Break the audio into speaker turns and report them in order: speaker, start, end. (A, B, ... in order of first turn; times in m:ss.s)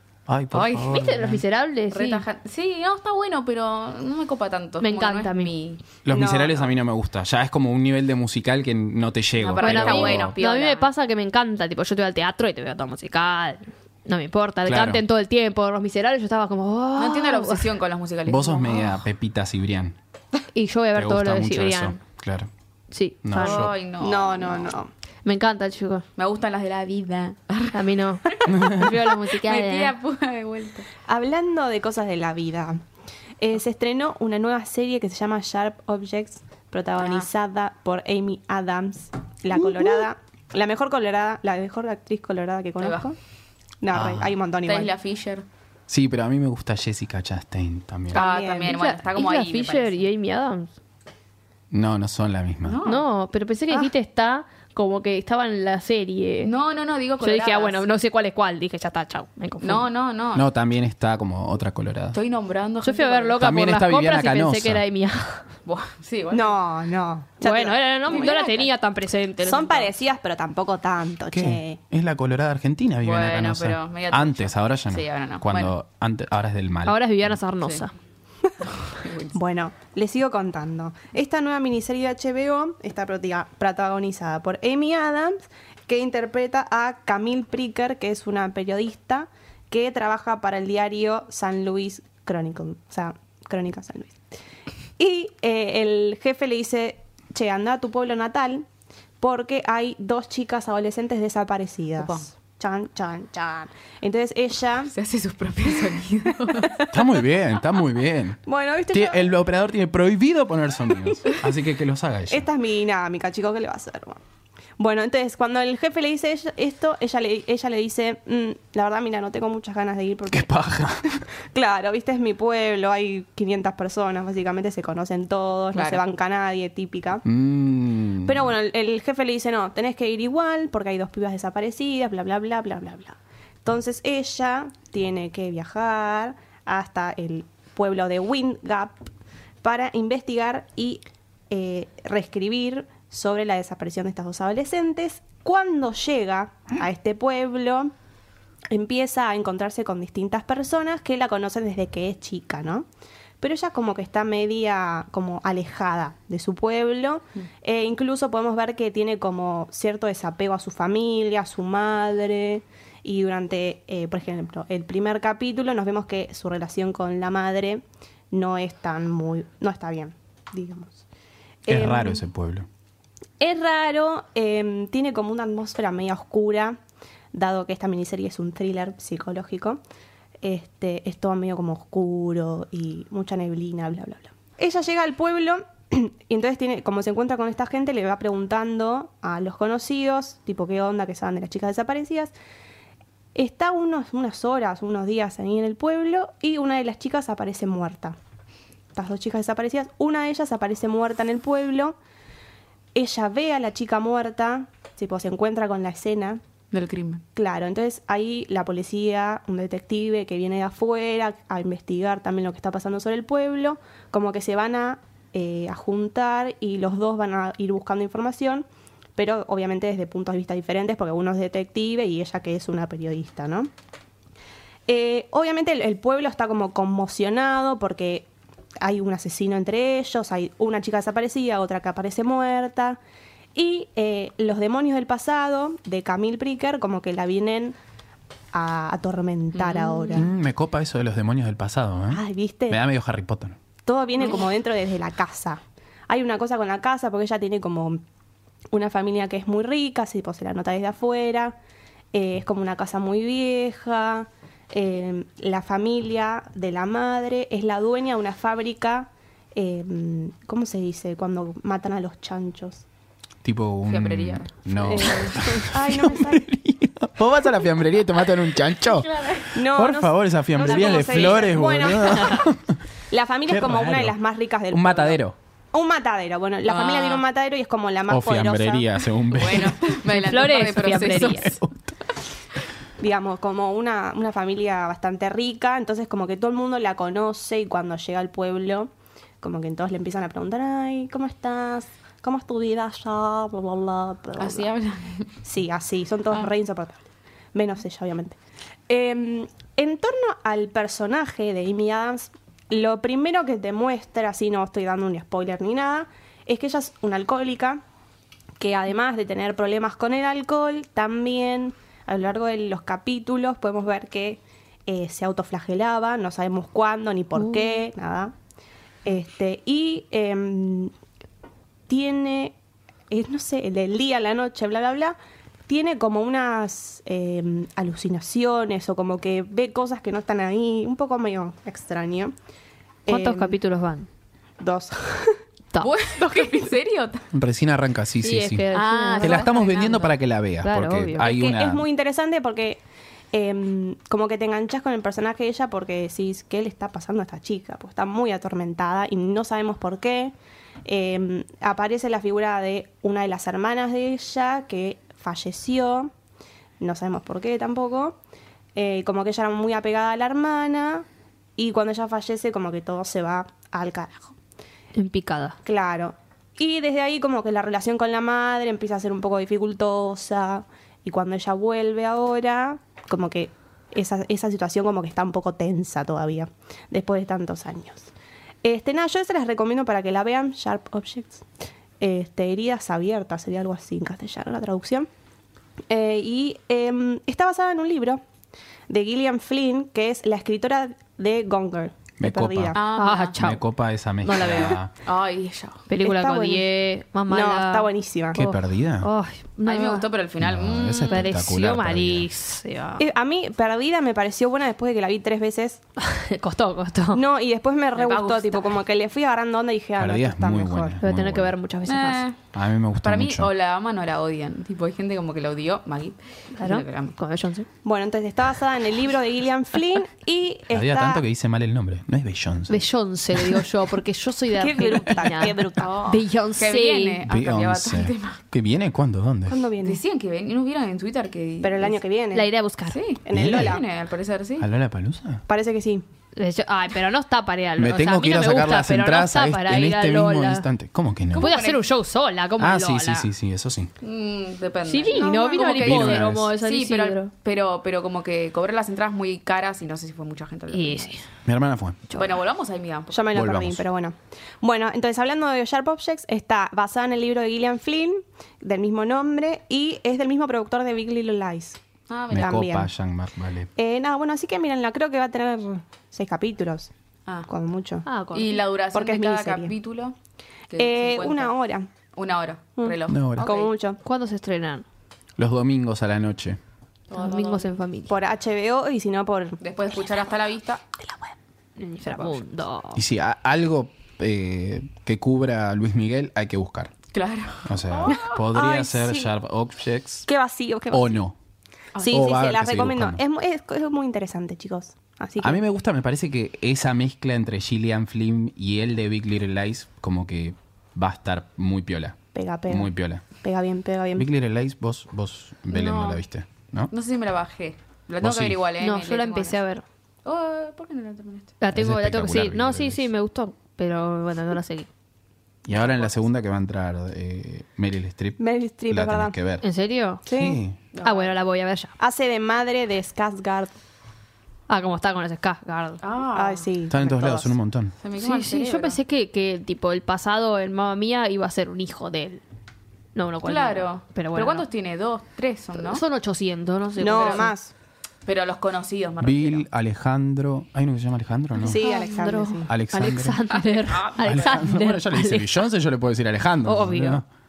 0:00.3-0:01.4 A
0:00.5-0:01.0 B
0:00.8-0:02.2 C
0:01.9-0:05.8 B
0:04.8-0:05.5 C
0:06.0-0:10.4 A
0:06.1-0:06.7 D
0:09.4-0:10.9 B
0:09.6-0:17.7 C
0:14.7-0:15.0 A
0:17.0-0:19.0 B
0:18.3-0:20.0 A
0:20.5-0:22.0 C
0:21.0-0:22.5 A
0:22.9-0:23.7 C
0:23.2-0:23.7 A
0:23.4-0:24.8 B
0:24.0-0:24.9 D
0:25.2-0:26.1 C
0:26.2-0:30.9 B
0:27.7-0:29.9 C
0:28.5-0:28.9 A
0:31.1-0:32.8 D
0:33.4-0:43.2 D
0:37.0-0:37.3 B
0:42.8-0:43.1 B
0:43.8-0:44.9 D
0:43.9-0:44.3 A
0:44.6-0:45.4 B
0:45.9-0:48.2 A
0:48.1-0:48.8 D
0:48.1-0:50.0 B
0:48.7-0:50.7 C
0:51.7-0:52.8 A
0:52.6-0:53.0 B
0:52.8-0:56.5 C
0:56.4-0:57.8 B
0:57.2-0:59.9 C
0:59.6-1:00.5 B
1:00.3-1:02.2 A
1:02.1-1:03.4 B
1:02.8-1:05.5 C
1:03.4-1:04.8 A
1:05.7-1:06.6 B
1:06.3-1:08.5 D
1:07.4-1:09.9 C
1:08.1-1:08.7 B
1:09.4-1:11.8 D
1:11.3-1:17.4 A
1:13.0-1:15.7 B
1:16.9-1:17.9 C
1:18.6-1:19.4 B
1:19.3-1:34.2 D
1:35.0-1:38.7 D
1:39.2-1:44.9 D
1:42.0-1:42.3 B
1:44.9-1:46.8 B
1:46.5-1:47.0 D
1:46.9-1:52.5 A
1:48.5-1:49.3 D
1:52.3-1:54.2 D
1:54.8-2:00.5 D
2:00.3-2:01.2 A
2:01.5-2:07.2 D
2:05.7-2:06.0 B
2:07.2-2:08.5 A
2:08.2-2:19.0 D
2:19.6-2:27.9 D
2:28.7-2:32.9 D
2:33.4-2:51.0 D
2:51.7-2:52.2 D
2:51.7-2:52.7 A
2:53.4-2:56.8 D
2:57.3-2:59.8 D
3:00.4-3:12.3 D
3:13.4-3:18.2 D
3:18.9-3:22.0 D
3:23.0-3:26.4 D
3:26.7-3:27.2 B
3:27.4-3:43.7 D
3:44.9-3:48.3 D
3:48.8-3:53.0 D
3:53.6-3:57.8 D
3:58.5-4:00.3 D
3:59.5-4:00.2 B
4:00.1-4:03.6 A
4:02.1-4:02.8 D
4:03.9-4:08.0 D
4:08.7-4:11.6 D
4:12.1-4:22.8 D
4:23.4-4:32.8 A
4:23.9-4:25.4 B
4:24.8-4:26.5 D
4:29.5-4:32.5 D
4:30.6-4:31.4 B
4:33.1-4:35.2 D
4:33.5-4:34.2 A
4:34.7-4:35.4 A
4:35.7-4:38.9 D
4:36.6-4:37.2 B
4:38.1-4:39.8 A
4:39.3-4:41.6 B
4:40.1-4:41.5 C
4:41.2-4:42.0 A
4:43.0-4:54.7 D
4:54.4-4:55.3 B
4:55.4-5:07.8 D
5:08.6-5:18.3 D
5:17.4-5:17.7 C
5:19.0-5:20.9 D
5:21.9-5:22.6 D
5:23.1-5:25.2 D
5:25.7-5:32.3 D
5:33.1-5:33.6 D
5:33.1-5:34.1 C
5:34.6-5:35.4 D
5:35.8-5:37.3 B
5:37.3-5:38.7 A
5:38.2-5:39.8 C
5:38.7-5:40.1 B
5:39.2-5:41.8 A
5:40.6-5:41.3 C
5:41.2-5:42.8 D
5:43.3-5:50.3 D
5:50.8-5:56.1 D
5:56.8-5:58.2 D
5:58.8-6:01.1 D
6:01.6-6:04.3 D
6:05.0-6:05.6 C
6:05.6-6:18.1 D
6:18.6-6:21.5 D
6:22.0-6:25.1 D
6:25.9-6:28.2 D
6:28.9-6:32.8 D
6:32.2-6:32.8 A
6:32.7-6:33.4 B
6:32.9-6:33.6 C
6:33.4-6:34.9 A
6:34.2-6:34.8 C
6:34.3-6:35.8 B
6:35.9-6:40.1 C
6:36.0-6:36.7 D
6:37.3-6:38.4 D
6:38.3-6:39.1 A
6:39.6-6:41.4 B
6:40.4-6:42.3 A
6:41.1-6:43.0 C
6:43.0-6:45.8 D
6:46.0-6:47.2 C
6:47.1-6:51.0 D
6:48.0-6:48.8 B
6:50.0-6:51.5 A
6:51.0-6:52.3 C
6:51.9-6:52.4 B
6:52.5-6:53.5 A
6:53.0-6:57.2 B
6:56.6-6:57.7 C
6:57.8-7:01.2 D
7:00.7-7:03.6 A
7:02.7-7:07.2 C
7:04.6-7:06.1 D
7:05.8-7:08.4 B
7:07.3-7:09.6 A
7:09.5-7:10.0 D
7:09.8-7:12.0 B
7:11.6-7:12.5 D
7:12.3-7:13.0 C
7:12.9-7:14.7 B
7:13.2-7:13.8 D
7:13.3-7:13.8 A
7:14.6-7:15.4 A
7:15.5-7:16.0 D
7:16.4-7:20.7 C
7:17.8-7:21.5 A
7:21.3-7:21.8 B
7:21.4-7:23.3 C
7:22.6-7:23.9 A
7:24.0-7:31.2 B
7:24.9-7:27.3 C
7:25.1-7:25.8 D
7:25.8-7:26.5 A
7:30.7-7:31.2 C
7:31.5-7:32.0 A
7:32.1-7:33.3 B
7:33.1-7:41.8 D
7:33.3-7:33.8 A
7:42.1-7:42.6 B
7:42.3-7:43.7 A
7:42.3-7:42.9 D
7:43.8-7:46.9 D
7:47.5-7:48.1 D
7:48.0-7:48.6 C
7:48.3-7:50.2 B
7:48.9-7:49.7 D
7:50.7-7:51.5 B
7:50.8-7:51.9 D
7:52.1-7:53.7 B
7:52.8-7:54.0 D
7:53.1-7:53.5 A
7:54.0-7:54.8 C
7:55.4-7:56.6 A
7:57.1-7:57.7 B
7:57.1-7:58.2 C
7:58.1-7:59.6 D
7:59.6-8:00.8 B
8:01.0-8:01.3 D
8:01.8-8:03.0 C
8:03.0-8:06.9 A
8:07.1-8:08.4 B
8:07.6-8:10.3 A
8:08.1-8:09.3 D
8:10.3-8:11.2 D
8:10.9-8:11.4 A
8:12.0-8:12.4 B
8:12.0-8:15.6 D
8:12.1-8:13.2 A
8:15.4-8:22.2 A
8:22.3-8:24.3 D
8:22.7-8:23.2 A
8:24.2-8:26.9 A
8:25.7-8:26.2 B
8:26.9-8:29.6 B
8:28.2-8:28.6 A
8:28.8-8:29.8 C
8:30.2-8:31.6 B
8:31.6-8:34.9 C
8:31.7-8:33.1 A
8:35.7-8:39.6 A
8:35.7-8:36.1 B
8:38.4-8:39.4 D
8:39.6-8:40.3 C
8:40.3-8:40.6 D
8:40.4-8:40.8 A
8:40.9-8:41.3 B
8:41.0-8:41.9 C
8:42.0-8:43.8 D
8:44.7-8:46.0 C
8:46.0-8:46.7 B
8:46.3-8:47.6 D
8:46.9-8:48.0 A
8:48.0-8:49.0 B
8:48.2-8:52.4 C
8:53.2-8:54.7 C
8:53.4-8:56.0 B
8:55.8-8:57.5 C
8:57.0-8:57.7 D
8:57.1-8:57.5 B
8:58.3-8:59.6 B
8:59.2-9:01.8 A
9:01.6-9:02.7 D
9:01.7-9:05.5 C
9:02.7-9:03.4 A
9:03.7-9:04.4 B
9:04.2-9:07.2 A
9:06.6-9:07.2 C